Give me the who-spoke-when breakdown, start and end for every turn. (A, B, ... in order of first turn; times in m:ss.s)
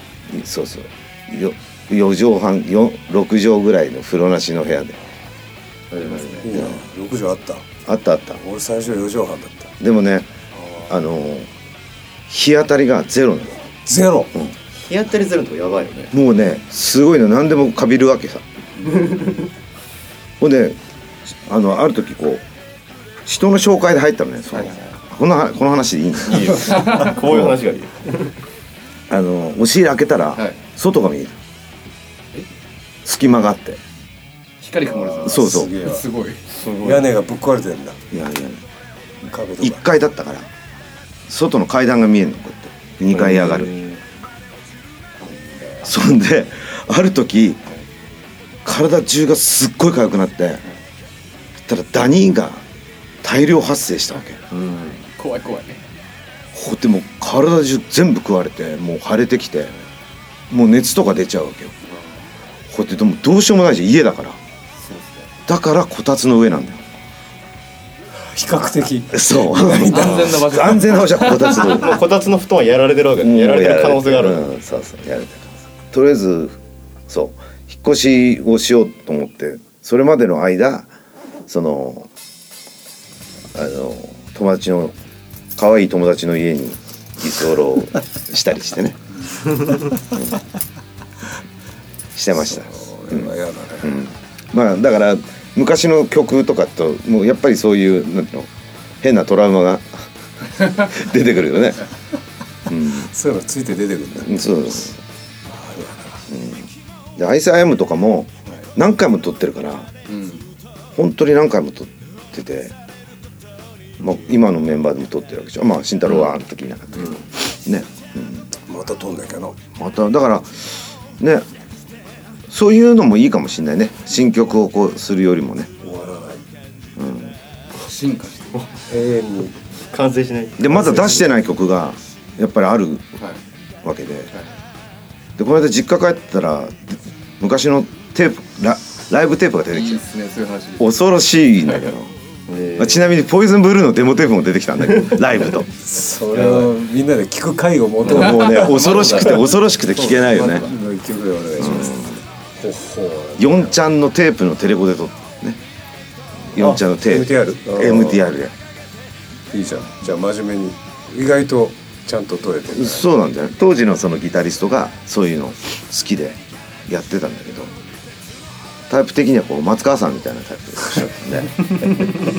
0:00.3-0:05.0 A
0:05.9-0:06.4 B
0:06.3-0:07.6 C
0:06.5-0:06.8 A
0:07.8-0:08.4 A
0:08.4-0:09.7 C
0:09.8-0:10.3 A
0:10.9-0:11.5 A
0:12.3-0:13.6 A
0:13.8-0:14.3 C
0:14.8-0:16.1 B
0:16.1-0:18.4 A
0:18.8-0:19.5 B
0:20.4-0:20.8 A
0:21.4-0:22.4 A
0:23.2-0:26.8 A
0:24.5-0:24.8 D
0:26.3-0:28.3 B
0:29.1-0:31.4 A
0:33.0-0:33.8 A
0:34.6-0:36.5 D
0:35.0-0:36.1 C
0:35.2-0:35.7 A
0:36.5-0:37.1 B
0:36.8-0:38.0 C
0:38.1-0:38.6 A
0:39.2-0:39.9 C
0:39.6-0:40.5 A
0:41.3-0:43.7 A
0:43.1-0:44.0 B
0:45.8-0:47.6 A
0:48.6-0:50.6 A
0:51.7-0:52.6 A
0:53.2-0:54.4 A
0:54.5-0:55.1 B
0:55.2-0:55.8 D
0:56.5-0:59.8 A
1:00.5-1:01.7 A
1:02.7-1:04.4 A
1:05.5-1:06.8 A
1:08.2-1:10.7 C
1:09.1-1:12.0 A
1:09.9-1:11.8 D
1:11.6-1:14.5 B
1:13.2-1:16.6 A
1:17.1-1:20.9 A
1:21.5-1:22.1 A
1:23.5-1:24.9 A
1:25.6-1:29.0 A
1:32.2-1:38.5 A
1:32.5-1:34.0 C
1:39.0-1:40.0 A
1:40.6-1:41.9 A
1:42.7-1:43.1 A
1:42.9-1:44.9 C
1:44.2-1:45.0 A
1:45.5-1:46.2 C
1:46.3-1:49.9 A
1:50.1-1:50.4 D
1:51.0-1:52.8 A
1:54.0-1:58.5 A
1:58.6-1:59.6 C
1:59.8-2:01.4 A
2:02.5-2:05.7 A
2:05.8-2:06.4 C
2:07.0-2:07.4 A
2:07.8-2:08.6 D
2:08.9-2:09.6 C
2:09.9-2:10.6 B
2:10.6-2:13.1 A
2:10.7-2:11.2 C
2:13.8-2:14.3 A
2:15.4-2:20.0 A
2:19.7-2:20.9 D
2:20.8-2:22.1 A
2:22.5-2:23.1 B
2:22.8-2:25.7 A
2:24.9-2:25.2 B
2:25.8-2:28.7 C
2:26.4-2:26.7 B
2:28.0-2:30.7 A
2:28.0-2:29.6 B
2:30.1-2:33.8 C
2:31.6-2:32.2 A
2:33.4-2:35.6 A
2:36.5-2:38.5 A
2:36.6-2:38.2 C
2:39.5-2:43.1 C
2:42.7-2:47.8 A
2:48.9-2:52.2 A